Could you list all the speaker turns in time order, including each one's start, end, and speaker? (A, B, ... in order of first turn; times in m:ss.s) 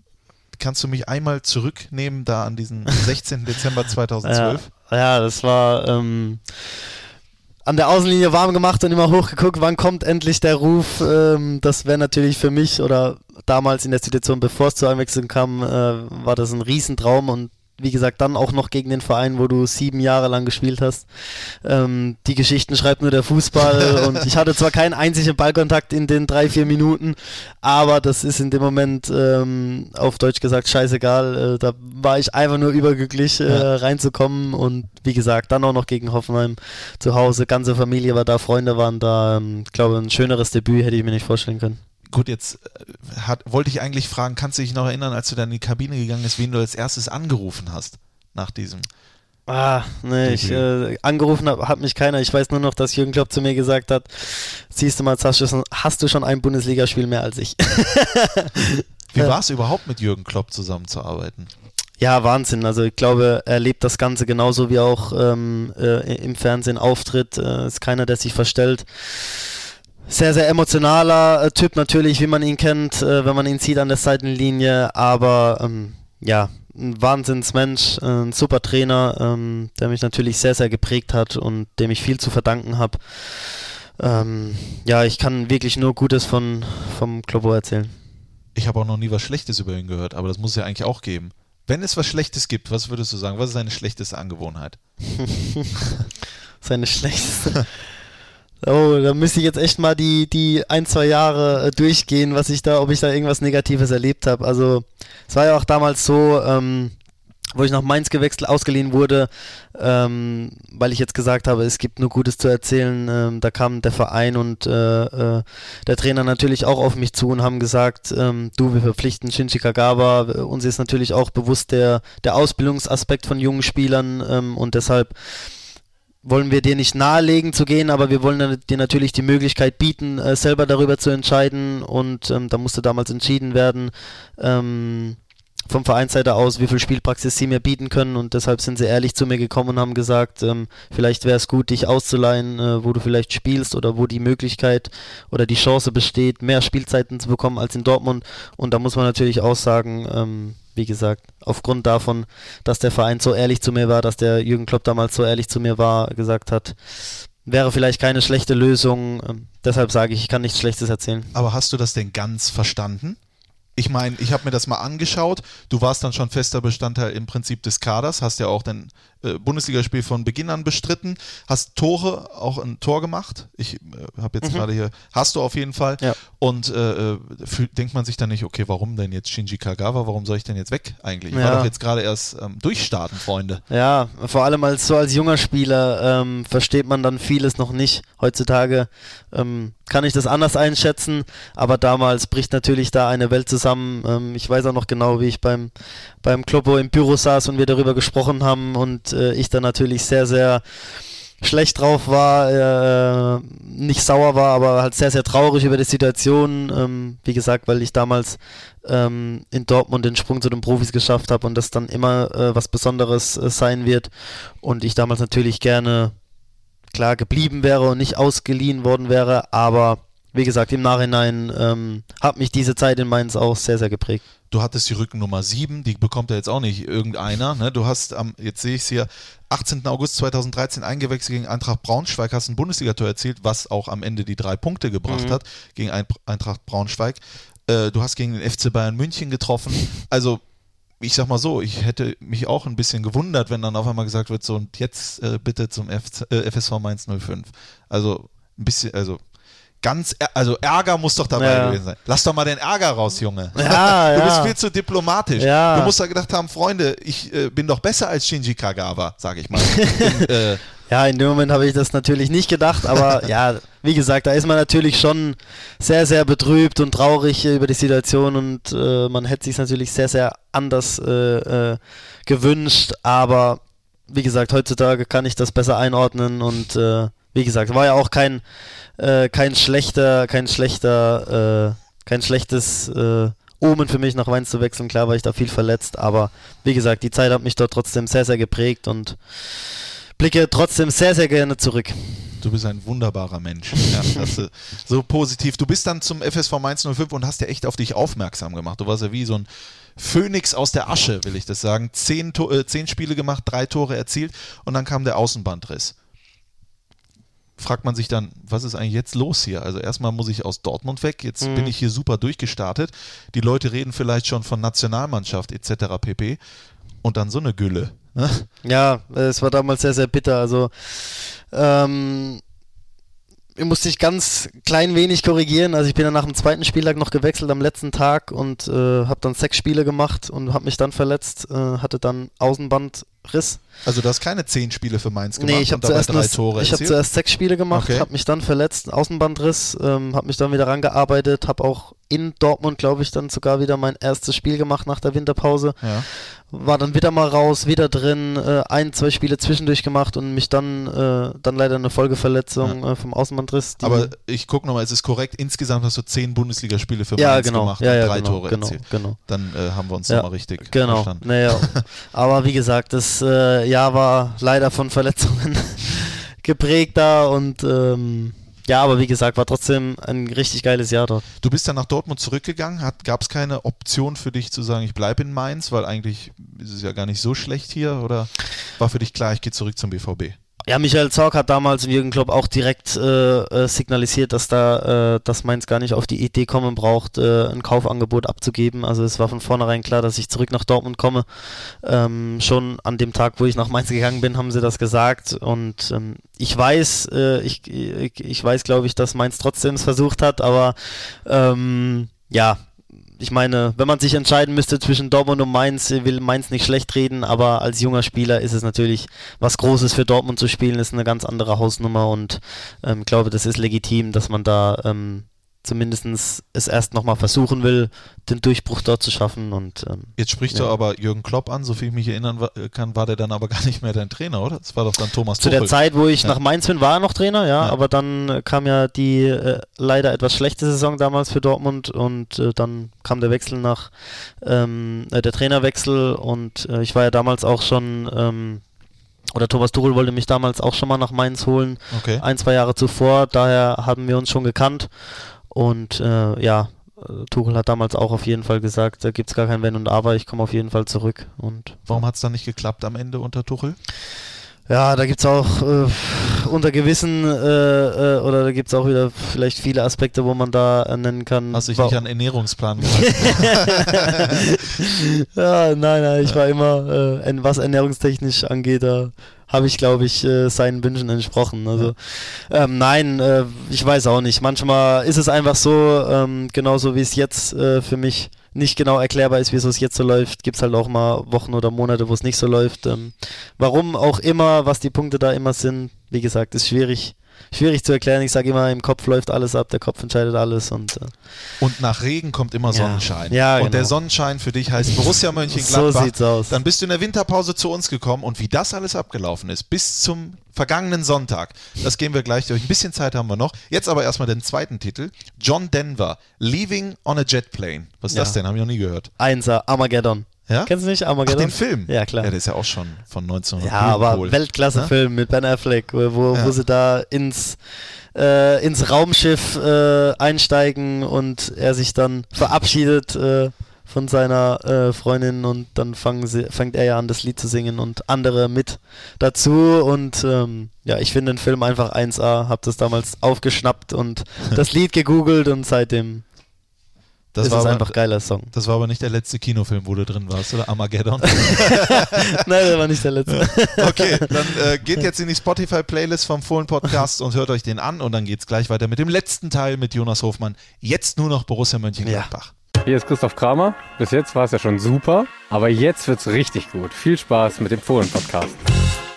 0:00.5-0:04.7 A
0:04.2-0:06.8 B
0:07.6-0:41.8 B
0:42.1-0:48.9 A
0:49.5-0:59.3 B
0:50.2-0:50.6 A
0:59.1-1:01.5 A
1:02.0-1:27.9 B
1:28.5-1:34.8 A
1:35.0-1:35.7 B
1:36.6-1:37.7 B
1:38.6-1:46.9 B
1:47.6-2:05.5 B
2:06.2-2:36.8 B
2:37.4-2:41.3 B
2:41.3-2:43.2 A
2:43.8-3:03.6 A
3:01.3-3:01.7 B
3:03.7-3:15.7 B
3:16.2-3:20.8 B
3:21.4-3:36.1 B
3:36.9-3:44.2 B
3:44.5-4:00.4 A
3:55.1-3:55.4 B
4:01.0-4:09.2 A
4:09.8-4:20.6 A
4:11.3-4:11.8 B
4:13.6-4:14.5 B
4:15.4-4:15.9 B
4:19.5-4:20.3 B
4:20.8-4:38.4 B
4:39.0-4:52.4 B
4:52.4-5:05.9 A
4:54.0-4:54.2 B
5:07.6-5:16.4 A
5:11.4-5:11.7 B
5:17.0-5:18.5 A
5:18.6-5:22.4 B
5:23.6-5:33.6 B
5:33.8-5:37.0 A
5:35.4-5:54.1 B
5:37.7-5:38.1 A
5:45.8-5:46.0 A
5:53.8-6:01.8 A
5:57.2-5:59.2 B
6:00.1-6:11.2 B
6:11.4-6:20.4 A
6:20.7-6:42.6 B
6:43.2-7:00.7 B
7:00.2-7:06.4 A
7:05.4-7:18.6 B
7:19.3-7:24.9 B
7:21.9-7:22.2 A
7:25.5-7:32.0 B
7:31.9-7:33.8 A
7:34.7-7:42.0 B
7:41.5-7:44.5 A
7:42.8-8:11.1 B
8:11.6-8:29.1 A
8:12.7-8:14.0 B
8:15.5-8:16.6 B
8:28.1-8:28.4 B
8:29.2-8:32.3 B
8:30.5-8:30.7 A
8:31.2-8:34.9 A
8:33.6-8:37.6 B
8:38.1-8:56.2 B
8:57.3-9:02.3 A
8:57.4-8:58.5 B
9:01.5-9:04.6 B
9:03.3-9:12.5 A
9:12.0-9:12.3 B
9:12.8-9:18.6 C